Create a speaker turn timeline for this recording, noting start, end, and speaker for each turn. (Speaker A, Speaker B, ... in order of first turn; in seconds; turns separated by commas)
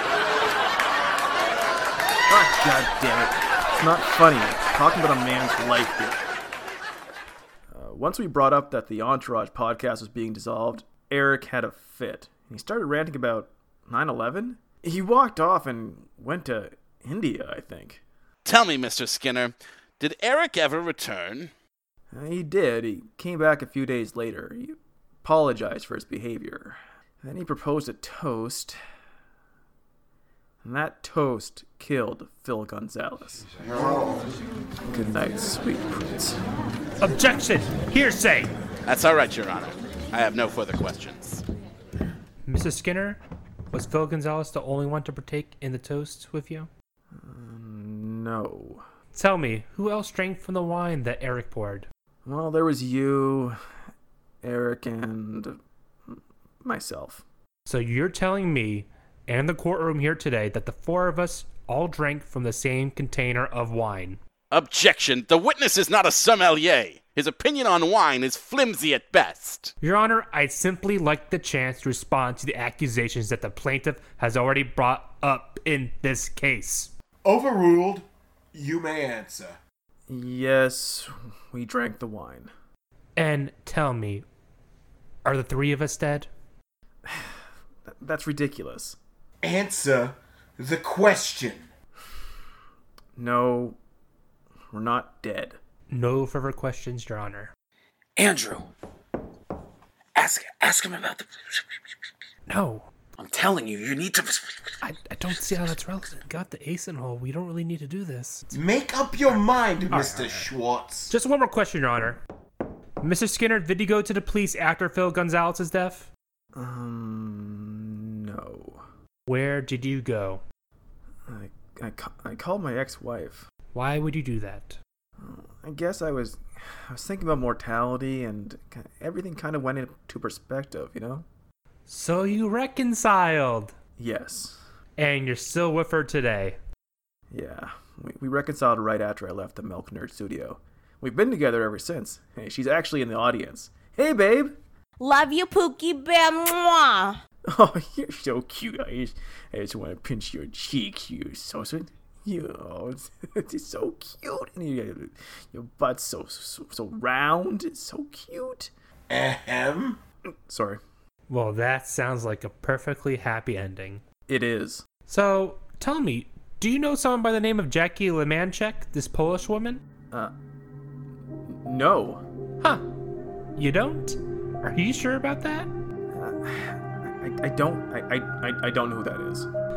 Speaker A: 2.3-6.2, Speaker A: 7.7-18.0, Speaker B: 18.4-21.5, Speaker A: 22.1-28.8, Speaker A: 30.6-33.5, Speaker A: 34.9-36.4, Speaker C: 37.0-38.5, Speaker B: 38.8-41.4, Speaker C: 42.5-43.2, Speaker C: 43.7-46.7, Speaker A: 47.1-48.8, Speaker C: 49.1-51.9, Speaker A: 52.2-53.6, Speaker A: 54.4-57.2, Speaker C: 57.7-64.2, Speaker B: 64.5-69.7, Speaker C: 69.8-76.9, Speaker D: 77.2-79.6, Speaker A: 80.1-82.5, Speaker C: 83.2-84.2, Speaker C: 85.2-86.3, Speaker A: 87.0-89.0, Speaker D: 89.4-91.7, Speaker A: 93.2-93.8, Speaker A: 94.7-95.6, Speaker C: 95.9-97.5, Speaker E: 98.2-98.7, Speaker E: 100.2-101.2, Speaker C: 102.5-102.9, Speaker E: 103.2-104.5, Speaker C: 104.8-108.5, Speaker D: 108.5-111.1, Speaker C: 109.3-110.5, Speaker C: 111.1-112.2, Speaker C: 113.0-116.1, Speaker A: 116.5-118.8, Speaker C: 119.3-120.4, Speaker A: 121.3-123.5, Speaker C: 123.7-124.8, Speaker A: 125.2-131.2, Speaker C: 131.9-133.7, Speaker A: 134.0-134.6, Speaker C: 135.0-136.6, Speaker A: 137.3-144.6, Speaker F: 145.0-147.2, Speaker A: 147.4-158.7, Speaker D: 159.1-160.0, Speaker A: 160.4-160.8, Speaker C: 161.3-164.0, Speaker A: 164.3-164.9, Speaker C: 165.1-169.8, Speaker A: 171.5-172.2, Speaker C: 173.6-175.7, Speaker A: 176.1-179.5